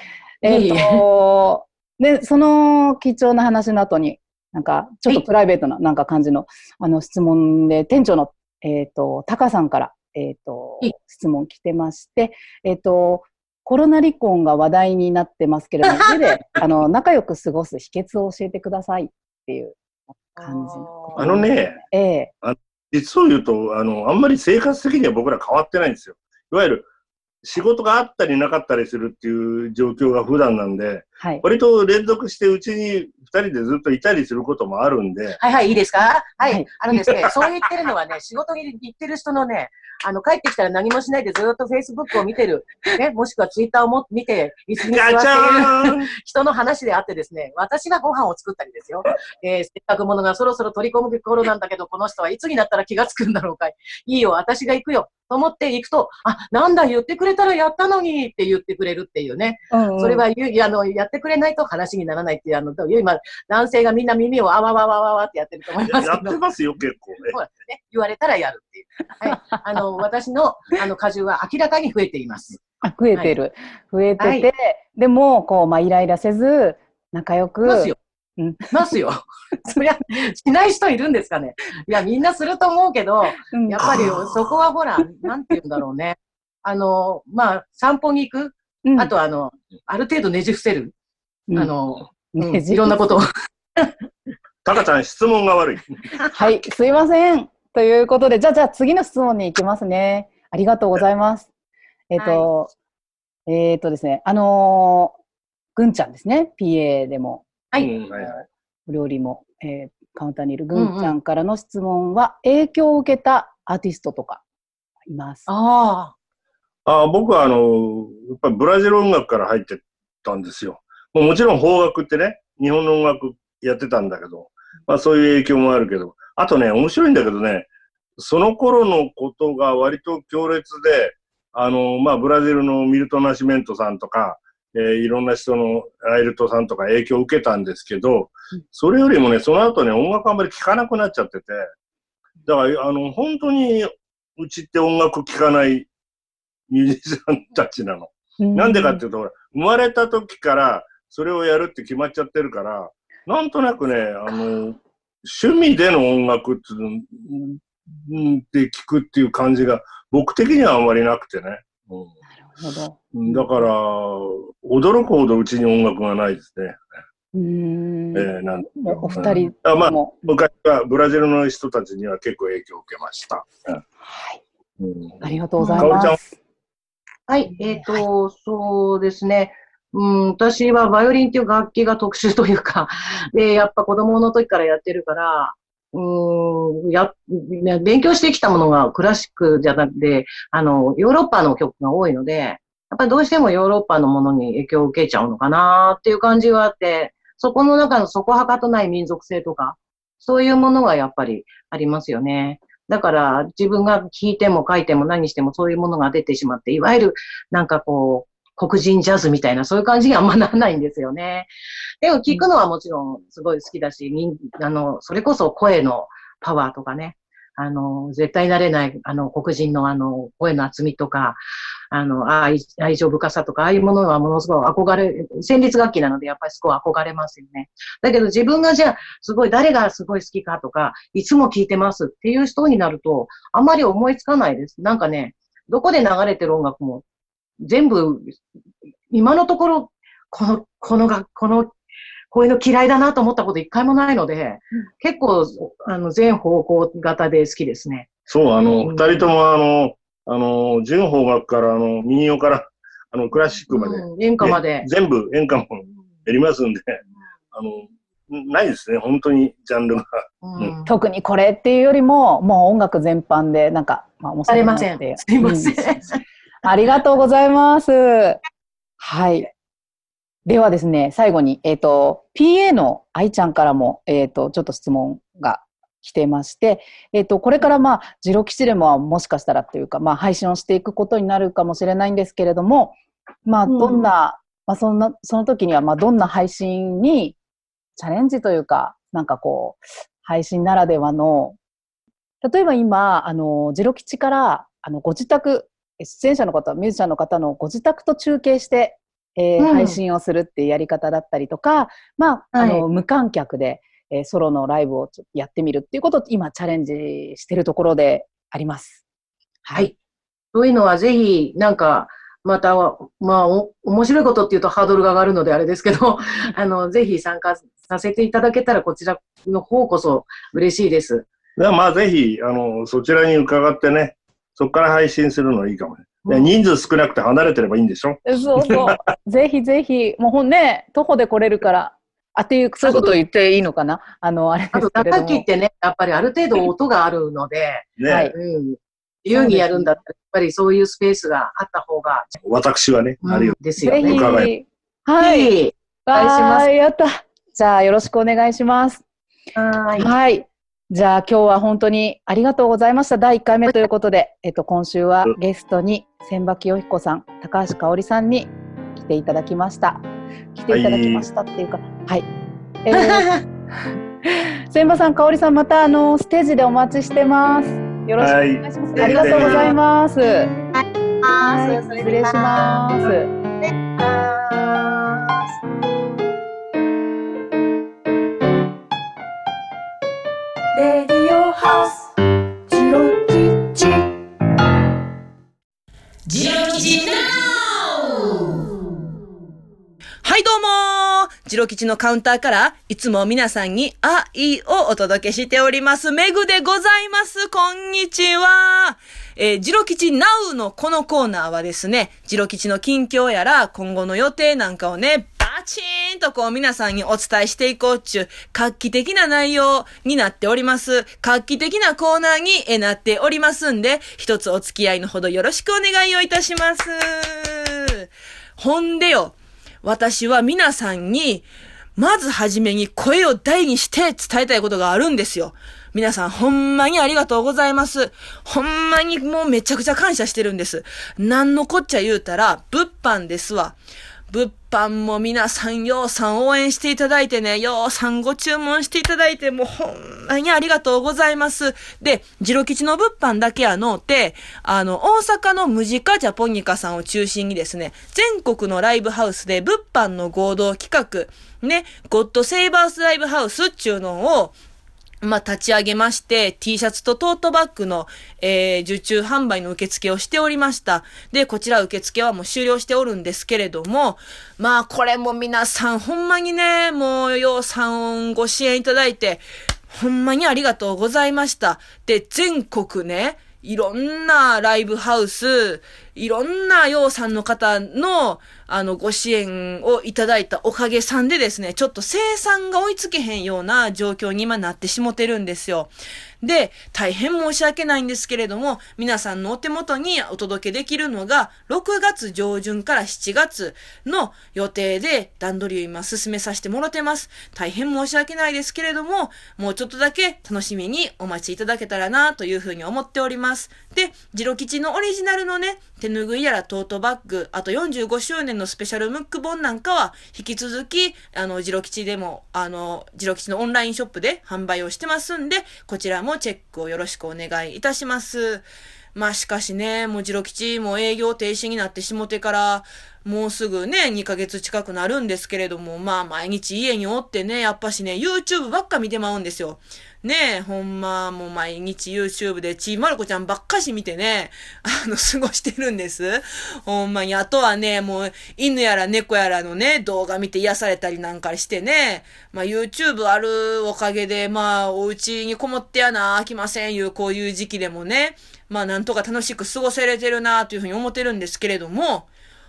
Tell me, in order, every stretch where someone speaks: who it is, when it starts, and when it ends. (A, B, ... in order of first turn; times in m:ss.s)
0:00.4-0:19.8 A
0:00.4-0:01.0 B
0:15.9-0:16.4 B
0:20.4-0:22.3 A
0:20.4-0:21.2 B
0:21.2-0:21.8 C
0:22.4-0:26.9 C
0:27.4-0:35.4 C
0:35.4-1:06.4 B
0:44.8-0:46.1 C
0:59.7-1:00.2 A
1:05.9-1:07.4 C
1:07.3-1:12.6 B
1:12.8-1:18.7 A
1:14.2-1:14.5 B
1:17.6-1:18.0 B
1:18.7-1:30.9 B
1:23.5-1:23.9 A
1:23.8-1:24.5 C
1:28.8-1:29.1 A
1:31.6-1:34.0 B
1:32.3-1:33.2 A
1:34.6-1:36.0 C
1:36.3-1:41.5 A
1:42.1-1:42.7 A
1:42.2-1:42.5 B
1:43.5-1:45.2 A
1:45.8-1:47.5 A
1:47.8-1:48.4 C
1:48.9-1:54.4 A
1:50.8-1:51.2 B
1:55.1-1:55.5 A
1:55.5-1:56.1 B
1:56.9-2:21.7 C
2:22.5-2:25.9 C
2:26.7-2:42.1 C
2:28.4-2:29.0 A
2:42.4-2:43.5 A
2:43.1-2:46.8 C
2:47.3-2:50.2 A
2:48.1-2:53.8 C
2:54.0-2:54.4 A
2:54.8-2:56.2 C
2:55.2-2:56.4 A
2:55.6-2:55.9 B
2:57.3-3:31.5 B
2:57.5-2:58.0 A
3:32.0-3:41.4 B
3:41.9-3:57.0 B
3:57.6-3:58.4 B
3:59.1-4:01.8 B
4:02.3-4:08.1 B
4:08.3-4:17.0 C
4:08.8-4:09.3 B
4:13.7-4:14.9 B
4:17.5-4:20.0 C
4:20.4-4:20.9 B
4:20.9-4:26.0 A
4:24.5-4:26.2 B
4:26.6-4:28.4 A
4:29.0-4:29.5 A
4:30.5-4:47.4 A
4:43.7-4:44.1 B
4:48.0-4:51.6 A
4:52.4-5:09.0 A
4:59.6-5:00.0 B
5:02.5-5:02.8 B
5:09.6-5:09.9 A
5:10.5-5:21.3 B
5:21.6-5:29.0 C
5:26.2-5:26.5 B
5:28.2-5:35.4 A
5:32.9-5:33.1 B
5:34.7-5:42.3 B
5:38.0-5:38.3 C
5:38.1-5:38.4 A
5:39.3-5:40.0 A
5:42.4-5:44.5 C
5:43.2-5:44.3 B
5:43.8-5:45.5 A
5:45.2-5:46.7 B
5:46.1-5:49.0 A
5:49.6-5:50.1 B
5:50.0-6:02.3 A
6:00.7-6:01.3 C
6:02.8-6:03.3 A
6:02.9-6:03.4 B
6:04.2-6:10.5 A
6:08.2-6:09.7 C
6:09.0-6:09.6 B
6:10.7-6:15.4 B
6:11.4-6:13.3 A
6:20.8-6:22.0 A
6:22.7-6:23.9 A
6:26.3-6:28.7 D
6:30.2-6:58.0 D
6:58.6-7:13.8 D
7:14.3-7:34.5 D
7:35.2-8:05.9 D
8:06.4-9:12.3 D